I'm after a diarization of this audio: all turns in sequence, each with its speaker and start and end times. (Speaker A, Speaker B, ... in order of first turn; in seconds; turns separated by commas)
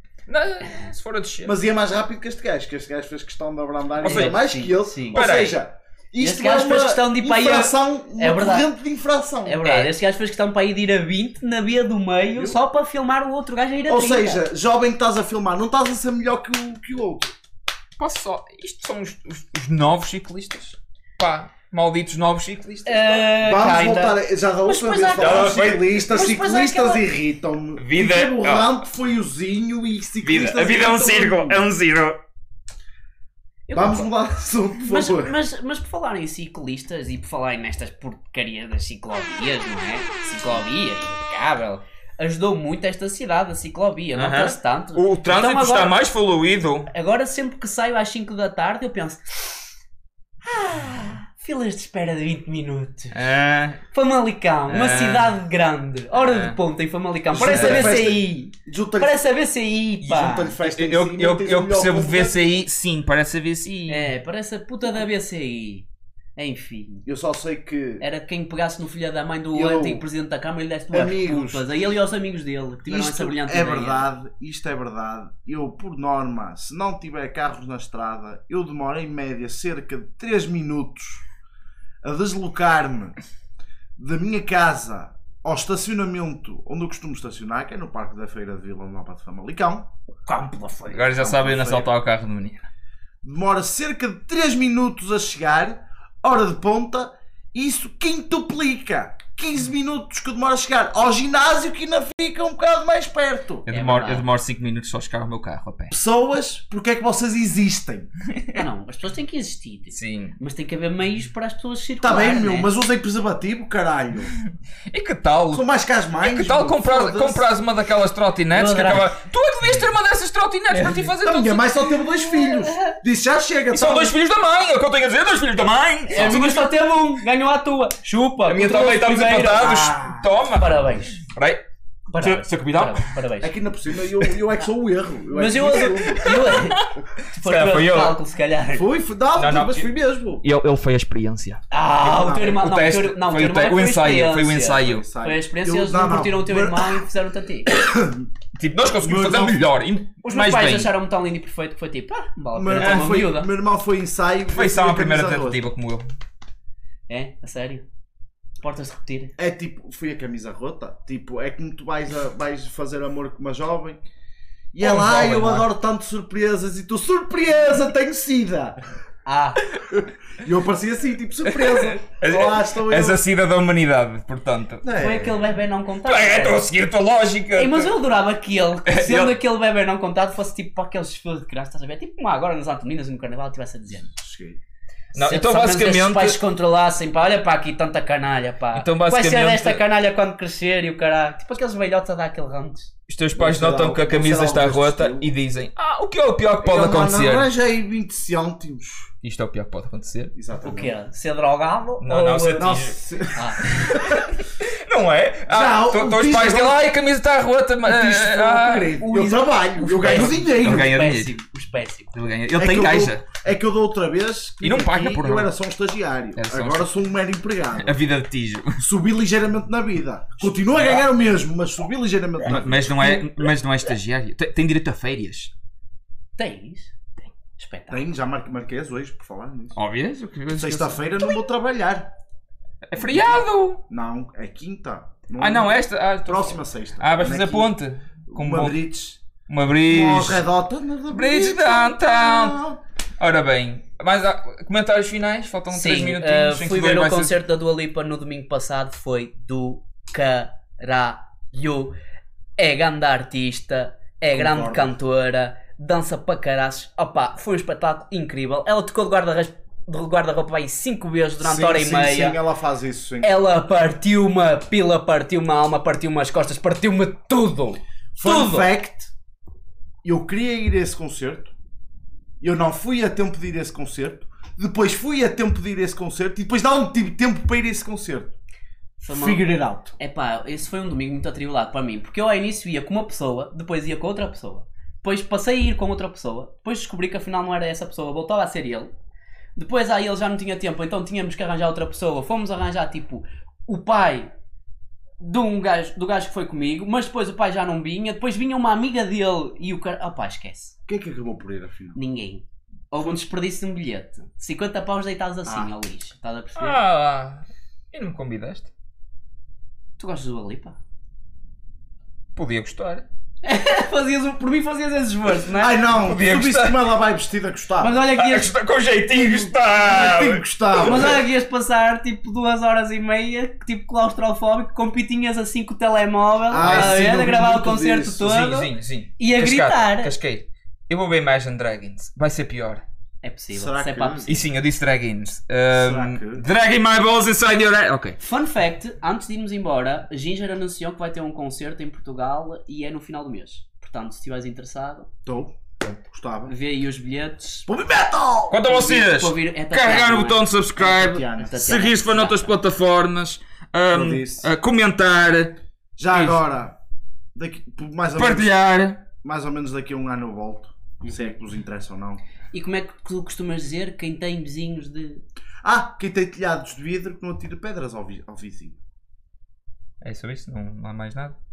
Speaker A: 0.3-1.6, Speaker B: 1.4-9.6, Speaker A: 4.0-4.4, Speaker C: 4.0-5.2, Speaker A: 5.1-5.6, Speaker C: 6.2-8.7, Speaker C: 9.4-14.4, Speaker A: 9.6-9.9, Speaker B: 13.9-17.3, Speaker A: 18.0-23.3, Speaker C: 22.9-27.0, Speaker B: 23.4-31.6, Speaker A: 25.2-26.0, Speaker A: 27.8-28.7, Speaker A: 30.2-32.2, Speaker C: 33.7-34.1, Speaker B: 33.7-35.4, Speaker C: 34.8-45.9, Speaker A: 44.1-46.9, Speaker C: 46.9-49.7, Speaker C: 50.4-53.2, Speaker A: 53.1-53.8, Speaker C: 53.9-60.5, Speaker A: 54.7-55.4, Speaker A: 56.1-56.6, Speaker B: 57.3-59.2, Speaker A: 57.5-58.0, Speaker A: 60.0-64.1, Speaker B: 60.1-62.6, Speaker C: 63.9-67.0, Speaker B: 67.0-68.0, Speaker C: 68.0-74.1, Speaker B: 69.5-70.0, Speaker B: 70.9-71.7, Speaker B: 72.8-81.2, Speaker B: 82.0-83.2, Speaker B: 84.0-89.9, Speaker C: 90.2-91.4, Speaker A: 90.9-92.7, Speaker B: 91.2-91.9, Speaker B: 93.2-103.7, Speaker A: 103.7-105.9, Speaker C: 103.7-104.2, Speaker B: 105.9-108.1, Speaker A: 108.3-108.6, Speaker C: 108.5-112.7, Speaker A: 109.9-110.3, Speaker B: 112.0-114.3, Speaker A: 114.3-115.7, Speaker B: 115.5-117.5, Speaker A: 116.2-121.9, Speaker C: 118.5-119.2, Speaker C: 120.7-121.0, Speaker B: 121.2-124.1, Speaker C: 122.4-123.0, Speaker A: 123.7-126.7, Speaker C: 126.1-131.2, Speaker A: 128.5-131.6, Speaker C: 132.1-133.6, Speaker A: 132.2-133.1, Speaker B: 133.4-136.5, Speaker C: 135.3-138.9, Speaker A: 136.2-138.2, Speaker B: 138.7-140.4, Speaker A: 139.3-139.9, Speaker A: 140.4-141.6, Speaker C: 141.7-147.8, Speaker B: 142.0-142.6, Speaker A: 142.3-145.1, Speaker B: 144.8-147.0, Speaker B: 147.7-148.3, Speaker A: 148.5-150.9, Speaker B: 149.0-149.6, Speaker C: 150.2-153.5, Speaker B: 152.5-155.6, Speaker A: 152.8-153.0, Speaker A: 154.5-156.1, Speaker C: 157.1-157.8, Speaker C: 158.6-159.3, Speaker B: 159.4-164.0, Speaker B: 164.7-168.8, Speaker A: 164.8-165.7, Speaker C: 169.2-169.7, Speaker B: 169.9-173.2, Speaker A: 171.4-175.5, Speaker B: 174.8-175.4, Speaker C: 174.9-176.7, Speaker A: 176.0-177.9, Speaker C: 177.5-184.1, Speaker A: 178.9-179.4, Speaker B: 184.1-184.6, Speaker A: 185.1-186.4, Speaker C: 185.2-192.9, Speaker A: 188.7-189.8, Speaker A: 193.1-197.5, Speaker B: 193.4-195.3, Speaker B: 196.6-199.1, Speaker A: 199.2-200.3, Speaker B: 200.3-200.9, Speaker C: 200.6-202.8, Speaker A: 202.0-203.0, Speaker B: 202.6-204.3, Speaker C: 203.3-203.6, Speaker A: 203.6-209.0, Speaker B: 205.5-206.8, Speaker B: 207.8-210.9, Speaker C: 208.9-212.1, Speaker A: 209.9-211.3, Speaker A: 212.1-213.3, Speaker B: 212.5-218.0, Speaker A: 214.6-215.5, Speaker A: 216.3-216.9, Speaker A: 217.8-218.8, Speaker B: 218.8-223.2, Speaker A: 220.6-221.1, Speaker A: 222.4-225.5, Speaker C: 226.4-226.9, Speaker C: 227.6-228.1, Speaker B: 227.9-229.8, Speaker A: 229.7-231.1, Speaker B: 230.5-232.1, Speaker A: 232.8-233.8, Speaker B: 232.9-237.7, Speaker A: 235.4-238.8, Speaker B: 238.3-239.2, Speaker A: 239.5-240.4, Speaker B: 239.9-242.8, Speaker A: 241.1-242.6, Speaker A: 243.2-247.3, Speaker C: 245.7-251.9, Speaker C: 252.6-262.4, Speaker B: 254.3-254.9, Speaker B: 261.4-263.3, Speaker C: 263.2-268.7, Speaker B: 268.1-269.1, Speaker B: 270.0-271.5, Speaker B: 272.4-278.4, Speaker C: 279.0-288.9, Speaker B: 279.1-279.9, Speaker C: 289.6-294.3, Speaker C: 295.2-300.8, Speaker B: 300.9-302.0, Speaker C: 301.9-306.8, Speaker B: 305.4-305.7, Speaker A: 306.6-308.7, Speaker C: 310.0-310.8, Speaker A: 312.4-313.1, Speaker C: 313.4-315.9, Speaker B: 315.5-318.0, Speaker A: 315.9-316.9, Speaker C: 317.8-318.5, Speaker A: 318.1-321.1, Speaker B: 319.3-321.2, Speaker C: 320.8-330.1, Speaker B: 326.5-328.3, Speaker A: 326.6-326.9, Speaker A: 328.2-332.8, Speaker C: 333.2-334.4, Speaker B: 333.5-334.3, Speaker A: 334.2-338.2, Speaker B: 335.7-336.4, Speaker C: 338.2-345.1, Speaker B: 345.2-346.5, Speaker C: 346.5-347.7, Speaker B: 347.7-348.7, Speaker A: 348.5-355.6, Speaker C: 348.6-352.5, Speaker B: 350.8-351.9, Speaker B: 353.9-354.5, Speaker B: 356.0-356.8, Speaker A: 356.1-356.4, Speaker B: 357.3-358.5, Speaker A: 358.2-359.0, Speaker B: 359.2-362.2, Speaker C: 361.0-361.3, Speaker C: 362.5-365.2, Speaker B: 365.6-368.8, Speaker A: 370.0-371.4